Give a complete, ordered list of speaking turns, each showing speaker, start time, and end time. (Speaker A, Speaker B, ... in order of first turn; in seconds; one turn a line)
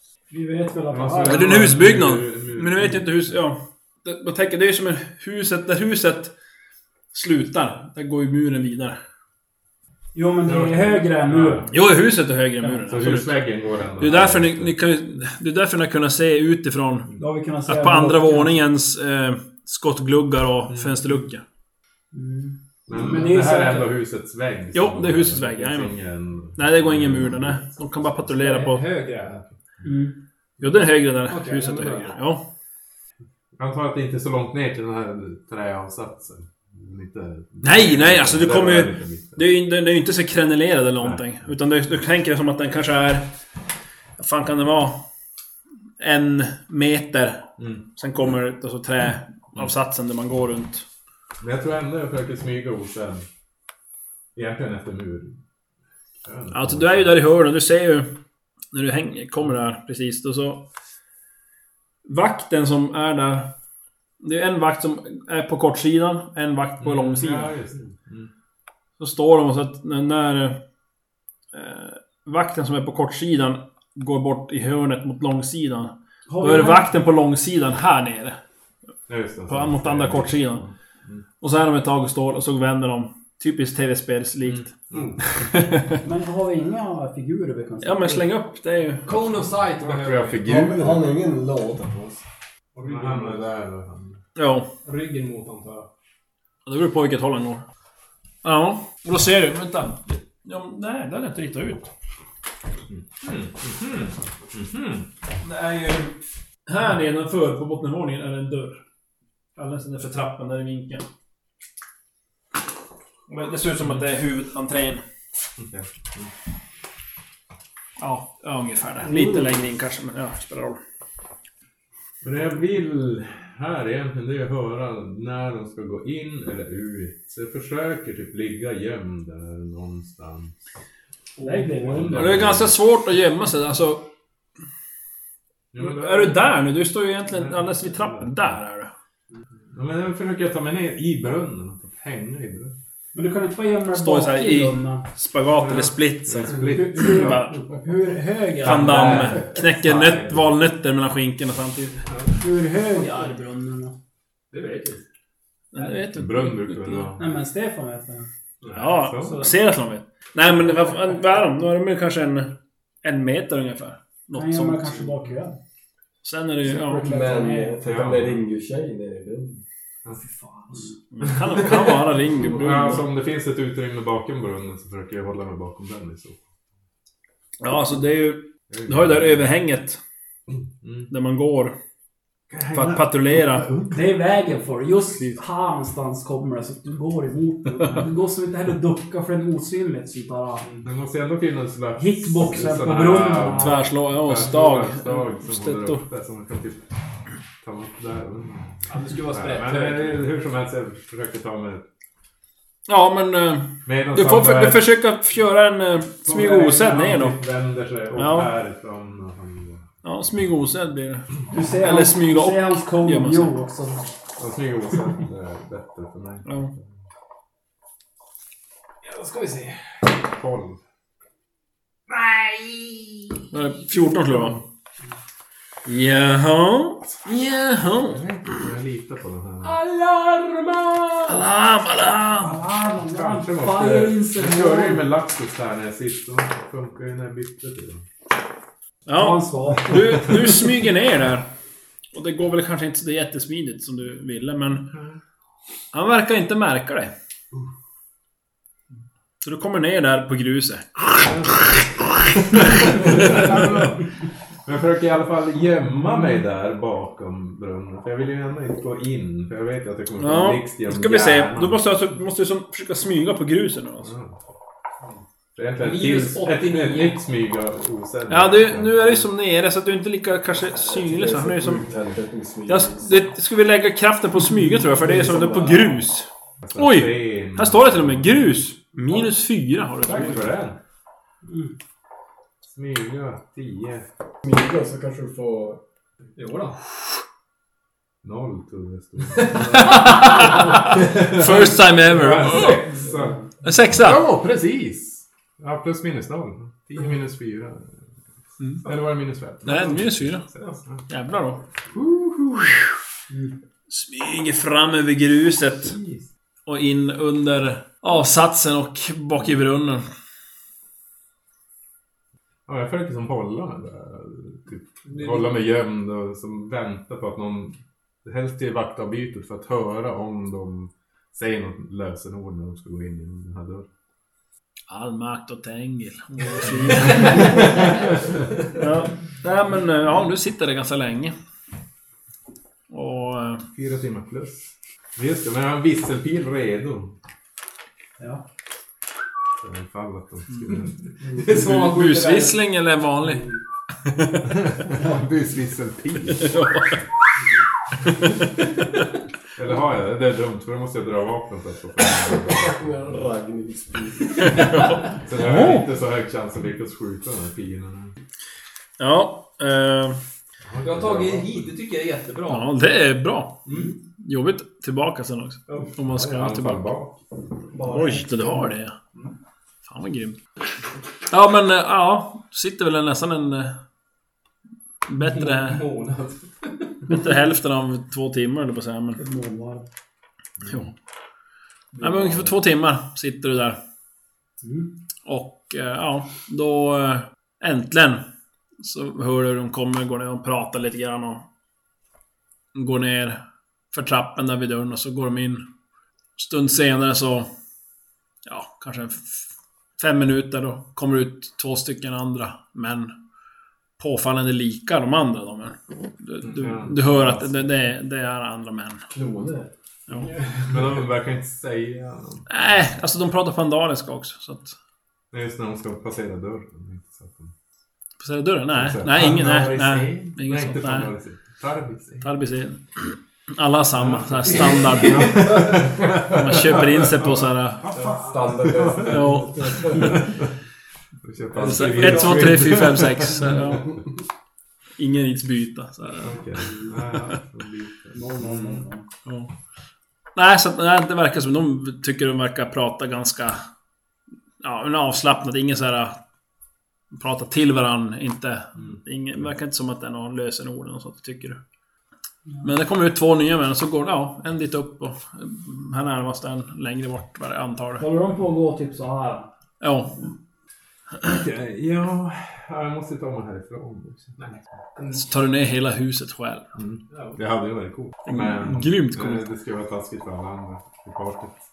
Speaker A: 0.3-1.7
Speaker B: 0.9-3.3
Speaker C: 1.2-6.3
Speaker C: 7.1-9.0
Speaker A: 10.1-11.7
Speaker B: 10.4-11.7
Speaker C: 11.7-13.4
Speaker B: 12.8-14.7
Speaker C: 14.0-17.1
Speaker A: 17.2-18.6
Speaker C: 17.6-21.4
Speaker B: 20.7-21.2
Speaker A: 22.1-23.9
Speaker B: 22.9-28.2
Speaker C: 24.7-25.9
Speaker C: 26.6-28.9
Speaker D: 28.4-29.4
Speaker A: 29.8-30.2
Speaker C: 30.6-32.4
Speaker D: 31.3-32.2
Speaker B: 33.6-39.4
Speaker C: 37.6-43.3
Speaker B: 41.0-41.2
Speaker C: 44.2-45.0
Speaker C: 46.0-50.8
Speaker B: 47.6-47.8
Speaker B: 51.4-53.2
Speaker B: 54.3-55.4
Speaker B: 56.2-57.2
Speaker C: 56.5-58.1
Speaker C: 58.7-60.6
Speaker C: 62.0-63.5
Speaker C: 64.2-67.5
Speaker B: 66.8-68.3
Speaker C: 69.0-70.6
Speaker C: 71.5-78.4
Speaker A: 76.3-76.9
Speaker B: 79.1-81.2
Speaker C: 79.5-80.7
Speaker C: 81.4-84.7
Speaker B: 84.4-85.5
Speaker C: 85.4-86.0
Speaker A: 86.0-88.2
Speaker C: 87.8-89.2
Speaker D: 89.0-90.5
Speaker B: 89.8-91.0
Speaker E: 90.4-92.2
Speaker D: 92.7-93.5
Speaker B: 92.8-94.2
Speaker C: 94.3-94.7
Speaker D: 94.8-95.9
Speaker C: 96.7-97.6
Speaker C: 98.4-101.9
Speaker B: 102.9-105.1
Speaker C: 105.4-106.2
Speaker C: 106.7-108.8
Speaker C: 109.5-111.0
Speaker C: 113.3-115.0
Speaker B: 115.6-116.3
Speaker C: 118.0-120.8
Speaker B: 122.2-130.5
Speaker A: 131.4-132.3
Speaker D: 131.4-131.9
Speaker B: 131.8-132.8
Speaker C: 132.1-134.1
Speaker B: 135.7-136.6
Speaker C: 135.8-138.9
Speaker B: 137.3-138.5
Speaker B: 139.7-142.7
Speaker A: 143.1-145.1
Speaker C: 143.9-147.6
Speaker B: 145.5-147.5
Speaker A: 146.7-149.3
Speaker C: 148.6-152.1
Speaker B: 148.6-150.6
Speaker D: 152.1-152.3
Speaker A: 152.4-153.9
Speaker D: 154.5-155.0
Speaker C: 155.7-157.1
Speaker B: 156.1-157.3
Speaker A: 157.2-158.3
Speaker D: 158.6-158.9
Speaker C: 158.7-165.1
Speaker B: 158.8-159.5
Speaker A: 164.3-165.6
Speaker C: 166.2-167.2
Speaker E: 166.7-169.6
Speaker A: 166.7-167.8
Speaker B: 167.8-168.4
Speaker A: 170.1-170.9
Speaker C: 171.1-173.1
Speaker B: 172.5-176.4
Speaker C: 177.6-180.0
Speaker B: 178.7-179.5
Speaker B: 180.8-181.1
Speaker C: 181.1-181.8
Speaker B: 182.5-184.0
Speaker C: 182.7-183.7
Speaker A: 183.9-190.7
Speaker B: 190.8-196.8
Speaker A: 191.9-193.8
Speaker C: 193.4-196.0
Speaker B: 197.6-201.8
Speaker D: 198.9-200.3
Speaker C: 202.9-207.4
Speaker B: 203.8-204.9
Speaker B: 206.2-209.9
Speaker C: 208.1-208.5
Speaker C: 210.0-213.6
Speaker A: 211.5-214.1
Speaker B: 214.4-216.8
Speaker C: 216.4-216.7
Speaker D: 219.0-220.1
Speaker B: 220.3-220.8
Speaker D: 222.1-223.4
Speaker C: 223.5-224.6
Speaker C: 225.8-228.2
Speaker B: 228.0-229.8
Speaker D: 229.6-231.4
Speaker C: 231.2-232.6
Speaker A: 232.4-235.0
Speaker B: 233.0-238.0
Speaker C: 239.1-241.5
Speaker A: 239.1-240.4
Speaker C: 242.1-244.9
Speaker C: 245.9-247.1
Speaker C: 249.4-251.7
Speaker B: 251.2-251.9
Speaker C: 252.5-253.6
Speaker B: 252.5-254.1
Speaker B: 254.6-261.9
Speaker C: 260.2-264.1
Speaker B: 264.0-264.4
Speaker B: 265.6-269.3
Speaker D: 265.8-267.2
Speaker C: 268.3-271.9
Speaker E: 270.8-273.2
Speaker C: 272.7-280.5
Speaker E: 274.9-276.0
Speaker B: 276.6-278.6
Speaker B: 280.1-280.8
Speaker A: 281.5-281.7
Speaker B: 282.7-284.1
Speaker E: 284.4-285.8
Speaker D: 286.4-286.8
Speaker B: 288.2-297.9
Speaker C: 289.7-292.9
Speaker D: 290.1-290.5
Speaker D: 292.3-292.7
Speaker C: 293.6-294.2
Speaker B: 298.8-301.1
Speaker C: 299.6-300.5
Speaker C: 301.1-301.6
Speaker B: 301.9-302.7
Speaker C: 303.9-305.9
Speaker B: 305.9-306.2
Speaker C: 306.6-310.0
Speaker B: 312.7-323.9
Speaker D: 315.1-315.6
Speaker C: 324.9-328.1
Speaker B: 326.6-327.9
Speaker C: 328.7-331.3
Speaker C: 332.9-333.6
Speaker B: 333.7-337.1
Speaker B: 339.6-341.0
Speaker D: 341.3-342.6
Speaker C: 341.5-343.5
Speaker C: 344.0-344.5
Speaker B: 344.5-346.5
Speaker C: 346.3-347.0
Speaker C: 348.0-349.1
Speaker B: 349.6-352.9
Speaker E: 352.5-354.6
Speaker C: 354.4-355.9
Speaker B: 355.1-358.1
Speaker C: 359.0-360.2
Speaker B: 360.6-361.7
Speaker D: 360.8-362.7
Speaker C: 362.5-366.9
Speaker D: 363.7-363.9
Speaker B: 366.1-367.2
Speaker E: 367.7-368.7
Speaker C: 367.8-368.9
Speaker C: 369.8-370.4
Speaker C: 371.3-373.8
Speaker C: 375.1-375.9
Speaker D: 375.2-377.0
Speaker C: 377.1-379.2
Speaker A: 379.2-379.8
Speaker C: 382.0-383.8
Speaker A: 384.6-384.9
Speaker C: 385.2-388.2
Speaker C: 388.8-391.4
Speaker C: 392.7-393.4
Speaker C: 393.9-395.6
Speaker C: 396.4-397.5
Speaker C: 398.4-403.1
Speaker C: 404.0-409.1
Speaker B: 406.5-407.4
Speaker E: 409.1-409.7
Speaker D: 410.1-410.7
Speaker B: 410.7-412.5
Speaker C: 412.5-414.8
Speaker B: 415.3-417.5
Speaker C: 418.2-421.1
Speaker B: 418.7-422.3
Speaker C: 422.2-427.9
Speaker B: 424.0-430.4
Speaker E: 428.0-430.3
Speaker C: 429.0-430.2
Speaker B: 431.2-433.6
Speaker C: 431.5-433.9
Speaker C: 435.0-437.4
Speaker B: 436.2-438.8
Speaker A: 438.1-439.0
Speaker C: 439.2-439.5
Speaker C: 440.3-443.6
Speaker C: 444.6-446.2
Speaker C: 447.1-451.6
Speaker C: 452.6-458.0
Speaker A: 458.0-459.5
Speaker C: 459.8-460.3
Speaker B: 461.2-464.4
Speaker D: 464.4-465.2
Speaker C: 465.1-466.7
Speaker B: 466.8-471.6
Speaker D: 467.1-467.4
Speaker C: 468.2-469.4